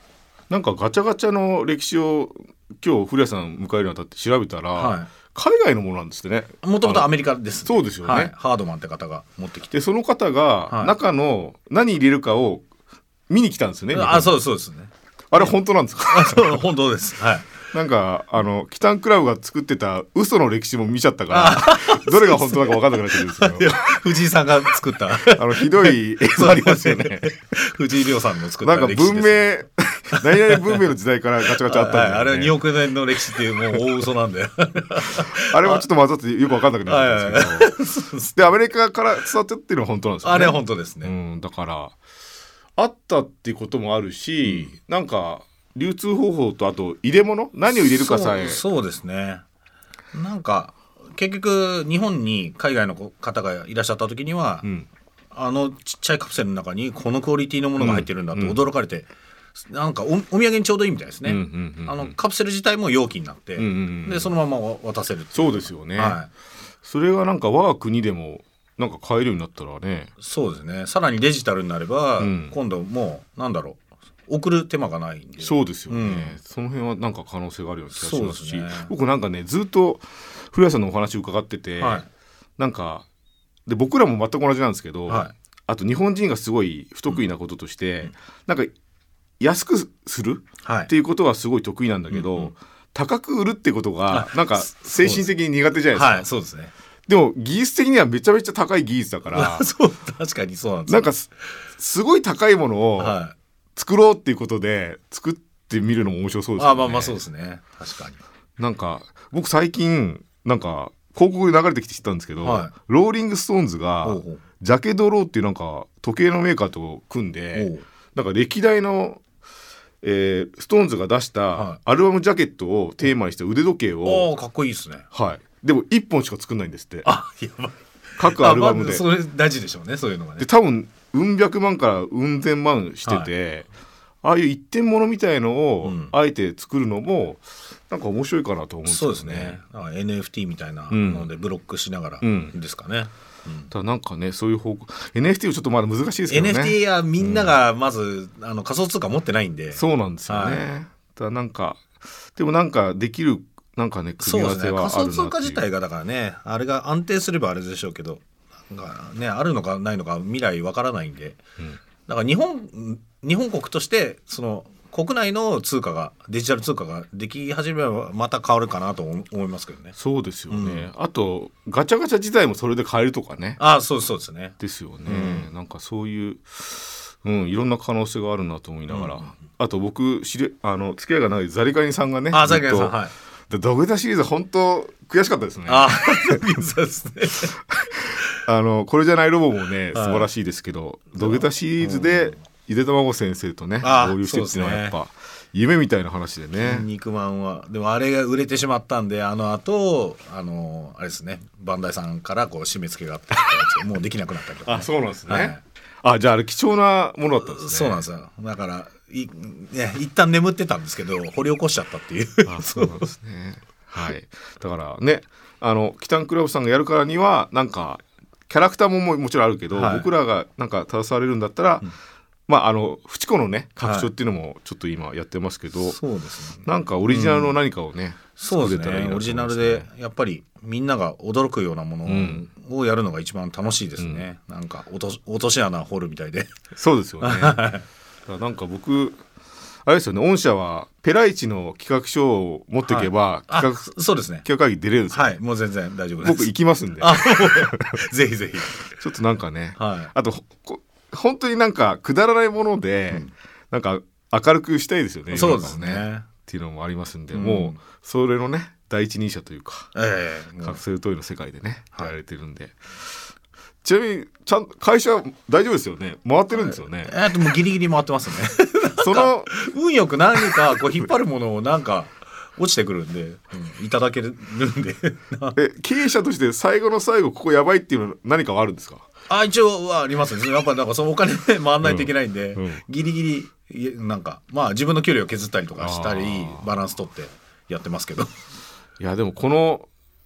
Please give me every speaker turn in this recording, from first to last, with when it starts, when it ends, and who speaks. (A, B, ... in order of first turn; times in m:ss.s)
0:00.5-0:07.1 A
0:04.7-0:05.1 B
0:06.6-0:09.7 B
0:07.6-0:08.3 A
0:09.7-0:12.6 A
0:10.7-0:10.9 B
0:13.3-0:14.3 A
0:13.9-0:14.9 B
0:15.3-0:16.6 A
0:16.1-0:17.5 B
0:17.7-0:23.9 A
0:21.3-0:29.5 B
0:25.3-0:27.3 A
0:28.6-0:32.6 A
0:30.1-0:30.8 B
0:31.5-0:35.8 B
0:33.2-0:33.8 A
0:35.3-0:37.7 A
0:36.8-0:38.4 B
0:38.3-0:41.9 A
0:40.2-0:41.1 B
0:42.8-0:48.6 A
0:44.4-0:44.7 B
0:47.7-0:49.4 B
0:50.1-0:54.7 B
0:55.3-1:06.3 B
0:57.8-0:58.6 A
1:01.2-1:02.2 A
1:03.6-1:04.3 A
1:05.3-1:06.2 A
1:06.8-1:10.1 A
1:10.2-1:16.4 B
1:12.2-1:12.5 A
1:15.4-1:22.0 A
1:17.9-1:18.9 B
1:21.8-1:22.1 B
1:22.6-1:23.0 A
1:23.6-1:28.7 A
1:25.1-1:25.3 B
1:29.4-1:36.2 A
1:30.6-1:30.9 B
1:32.1-1:32.5 B
1:34.1-1:35.2 B
1:35.9-1:36.7 B
1:37.1-1:39.7 A
1:39.3-1:41.1 B
1:40.9-1:43.2 A
1:43.0-1:43.4 B
1:43.8-1:47.2 A
1:46.6-1:48.2 B
1:48.6-1:59.2 A
1:52.4-1:52.7 B
1:54.0-1:54.4 B
1:57.5-1:57.8 B
2:00.0-2:04.3 A
2:01.5-2:01.8 B
2:04.0-2:05.0 B
2:05.1-2:07.1 A
2:07.0-2:10.5 B
2:08.2-2:09.1 A
2:10.4-2:13.7 A
2:13.0-2:13.3 B
2:14.2-2:19.6 A
2:15.8-2:16.1 B
2:18.8-2:23.7 B
2:20.9-2:21.3 A
2:22.2-2:22.5 A
2:23.7-2:27.5 A
2:26.3-2:30.6 B
2:29.7-2:35.6 A
2:34.2-2:41.4 B
2:42.0-2:50.0 B
2:50.0-2:53.6 A
2:50.5-2:50.9 B
2:53.6-2:55.5 B
2:54.6-3:03.0 A
2:58.9-2:59.3 B
3:02.3-3:03.1 B
3:03.5-3:06.4 A
3:05.6-3:07.5 B
3:07.7-3:16.8 A
3:09.9-3:10.3 B
3:11.2-3:12.4 B
3:13.8-3:15.0 B
3:16.6-3:25.6 B
3:24.6-3:28.0 A
3:27.4-3:33.0 B
3:32.5-3:41.9 A
3:39.7-3:40.1 B
3:42.5-3:46.0 A
3:43.8-3:44.1 B
3:45.8-3:47.6 B
3:46.6-3:49.9 A
3:48.4-3:56.5 B
3:52.0-3:52.5 A
3:54.0-3:54.2 A
3:56.7-3:57.6 A
3:57.2-3:57.8 B
3:58.2-3:59.2 A
3:59.8-4:05.3 A
4:02.8-4:04.4 B
4:05.1-4:08.8 B
4:06.2-4:08.0 A
4:08.9-4:19.9 A
4:09.8-4:10.1 B
4:15.3-4:16.3 B
4:17.3-4:17.8 B
4:19.9-4:20.8 B
4:20.6-4:22.8 A
4:23.8-4:27.1 A
4:26.5-4:35.6 B
4:29.0-4:29.5 A
4:35.5-4:39.0 A
4:39.3-4:48.3 B
4:41.8-4:42.8 A
4:45.8-4:46.8 A
4:49.0-4:49.9 A